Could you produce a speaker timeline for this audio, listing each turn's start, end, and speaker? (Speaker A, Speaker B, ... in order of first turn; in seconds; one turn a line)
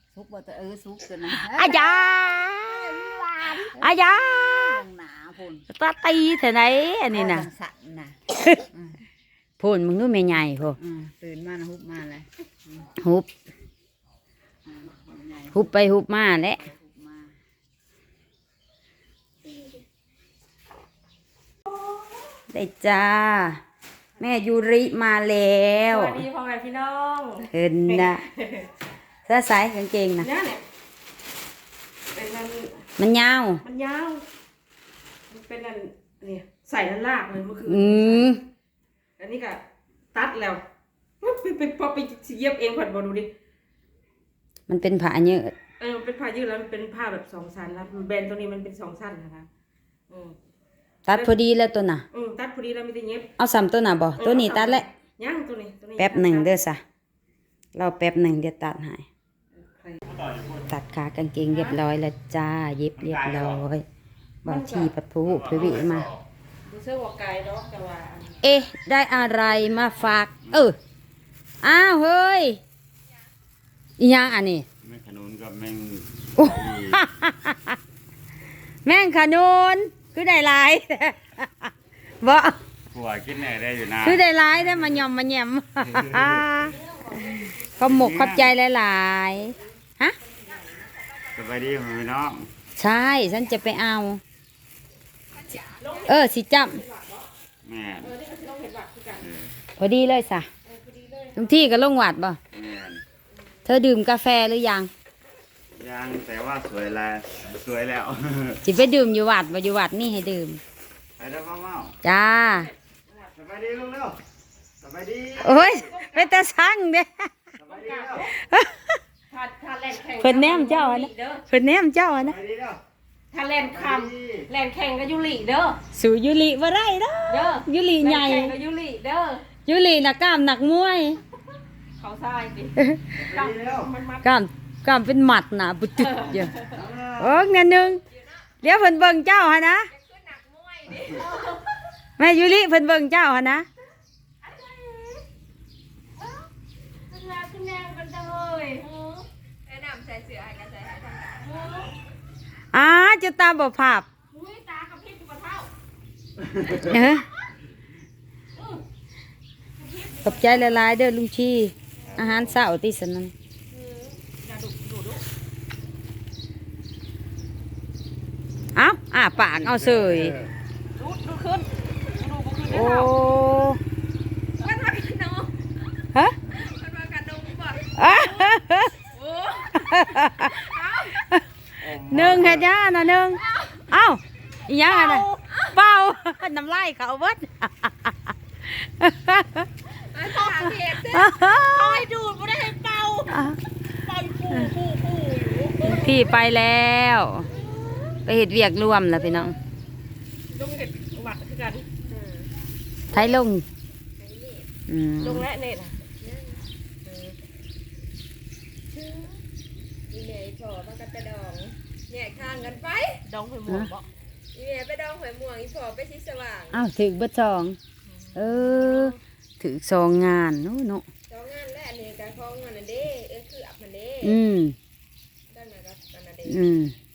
Speaker A: 0.1-3.9
Speaker B: 1.3-2.9
Speaker B: 3.8-4.8
Speaker A: 4.5-5.7
Speaker B: 5.7-7.5
Speaker A: 7.1-8.2
Speaker A: 8.7-9.0
Speaker B: 9.6-10.8
Speaker A: 10.8-12.9
Speaker B: 13.0-13.3
Speaker A: 14.7-15.7
Speaker B: 15.5-16.6
Speaker A: 16.6-17.3
Speaker B: 22.5-23.6
Speaker B: 24.2-26.2
Speaker C: 25.9-28.7
Speaker B: 27.5-28.2
Speaker B: 29.3-30.3
Speaker C: 30.2-30.6
Speaker C: 32.1-32.9
Speaker B: 33.0-33.6
Speaker C: 33.6-34.2
Speaker C: 35.3-38.4
Speaker B: 37.6-38.4
Speaker C: 39.2-39.6
Speaker C: 40.1-40.6
Speaker C: 41.2-43.3
Speaker B: 44.7-45.5
Speaker C: 45.8-49.5
Speaker C: 50.1-50.4
Speaker B: 51.1-52.0
Speaker C: 52.1-53.3
Speaker B: 53.4-54.9
Speaker C: 54.2-56.5
Speaker B: 56.0-56.8
Speaker B: 57.8-59.0
Speaker B: 60.6-63.8
Speaker B: 64.4-66.2
Speaker C: 64.5-64.9
Speaker D: 65.3-66.1
Speaker C: 66.7-68.4
Speaker B: 68.4-70.8
Speaker B: 71.6-72.6
Speaker B: 74.0-74.7
Speaker D: 74.8-77.0
Speaker B: 76.4-77.8
Speaker B: 78.8-82.6
Speaker D: 82.9-84.2
Speaker B: 84.0-86.8
Speaker C: 87.1-87.5
Speaker B: 87.8-90.2
Speaker D: 87.8-88.5
Speaker D: 91.3-92.5
Speaker B: 92.8-94.2
Speaker C: 95.8-97.3
Speaker B: 96.0-96.8
Speaker D: 97.6-98.1
Speaker C: 98.0-99.3
Speaker D: 99.2-99.5
Speaker B: 99.8-100.5
Speaker C: 100.7-101.7
Speaker B: 101.4-102.4
Speaker D: 102.5-103.0
Speaker B: 103.7-104.9
Speaker D: 105.8-108.6
Speaker B: 108.6-110.6
Speaker D: 111.2-112.0
Speaker B: 112.0-112.7
Speaker C: 112.4-113.3
Speaker D: 113.4-114.2
Speaker D: 114.8-115.7
Speaker B: 115.4-117.3
Speaker C: 115.6-116.4
Speaker D: 117.6-118.3
Speaker C: 117.6-118.3
Speaker B: 118.3-119.0
Speaker C: 119.3-121.4
Speaker B: 120.2-122.4
Speaker D: 122.2-122.8
Speaker C: 123.3-125.8
Speaker D: 123.7-124.5
Speaker B: 125.9-128.6
Speaker C: 127.3-129.5
Speaker B: 129.7-131.2
Speaker C: 132.0-134.3
Speaker B: 132.8-133.2
Speaker D: 133.2-133.9
Speaker B: 134.2-138.0
Speaker C: 136.0-136.8
Speaker D: 136.8-137.3
Speaker B: 138.6-139.9
Speaker E: 139.9-141.2
Speaker C: 141.0-141.7
Speaker B: 142.2-143.7
Speaker C: 144.4-145.2
Speaker C: 147.1-149.3
Speaker E: 149.7-151.5
Speaker C: 151.4-151.9
Speaker B: 152.7-154.1
Speaker C: 154.3-155.7
Speaker B: 156.7-157.2
Speaker C: 159.8-160.8
Speaker B: 160.2-163.3
Speaker C: 163.7-165.2
Speaker B: 168.8-170.4
Speaker C: 171.0-173.1
Speaker B: 172.7-173.8
Speaker C: 174.6-175.3
Speaker E: 174.7-175.5
Speaker E: 176.5-178.0
Speaker B: 178.0-179.1
Speaker C: 178.1-178.4
Speaker C: 179.2-179.6
Speaker E: 179.2-179.8
Speaker B: 179.7-189.7
Speaker C: 180.7-181.1
Speaker E: 180.7-181.0
Speaker D: 181.8-182.7
Speaker C: 184.9-185.4
Speaker C: 190.1-193.5
Speaker B: 190.4-192.1
Speaker E: 190.7-191.0
Speaker B: 193.3-193.6
Speaker C: 194.0-196.2
Speaker B: 195.8-197.5
Speaker C: 197.8-198.1
Speaker B: 198.3-199.6
Speaker C: 200.5-201.9
Speaker E: 202.1-202.5
Speaker B: 203.1-203.7
Speaker E: 204.2-204.7
Speaker B: 204.9-205.4
Speaker C: 205.2-206.1
Speaker E: 206.2-206.6
Speaker C: 207.1-207.4
Speaker E: 210.1-213.2
Speaker C: 213.2-214.1
Speaker E: 214.5-216.8
Speaker B: 216.7-217.8
Speaker C: 218.1-219.2
Speaker B: 218.3-221.1
Speaker E: 221.3-224.3
Speaker B: 224.2-224.8
Speaker E: 225.5-226.5
Speaker B: 226.4-226.9